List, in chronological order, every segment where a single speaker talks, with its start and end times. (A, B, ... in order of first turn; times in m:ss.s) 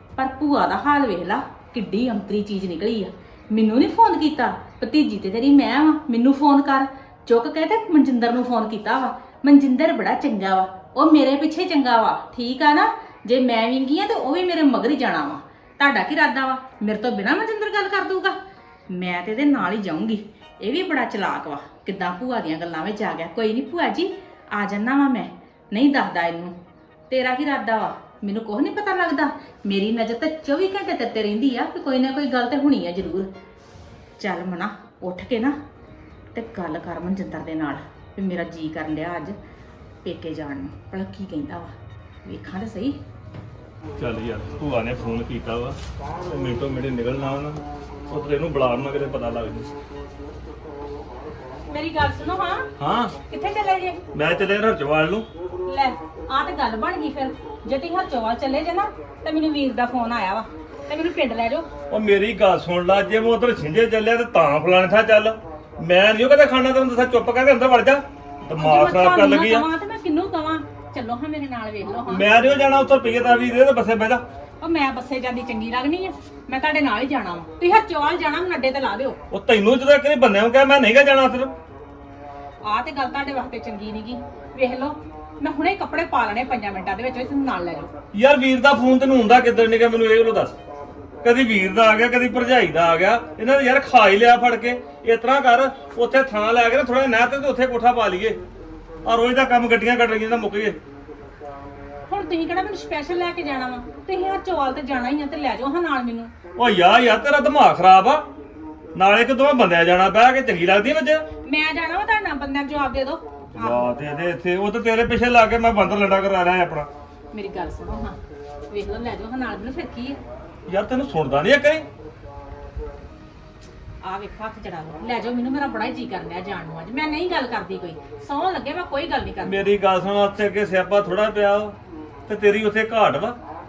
0:00.2-0:18.4 A
0:18.9-0:26.5 A
0:27.1-0:33.3 A
0:34.2-0:35.5 A
0:36.3-0:39.4 A
0:40.0-0:41.7 A
0:42.2-0:43.0 A
0:44.0-0:49.7 B
0:51.7-0:52.6 A
0:52.8-0:53.1 B
0:53.3-0:54.0 A
0:54.1-0:55.3 B
0:55.7-1:01.7 A
1:01.9-1:09.6 B
1:08.6-1:12.3 A
1:12.1-1:14.2 B
1:14.6-1:19.2 A
1:19.3-1:21.5 B
1:22.6-1:27.9 A
1:28.1-1:30.6 B
1:31.2-1:38.4 B
1:39.0-1:40.8 B
1:42.1-1:46.3 A
1:46.6-1:48.3 B
1:49.0-1:51.2 B
1:51.4-1:53.9 A
1:53.6-1:56.9 B
1:57.3-1:58.2 A
1:58.7-2:00.2 A
2:00.7-2:01.9 B
2:04.0-2:09.7 A
2:09.4-2:13.4 B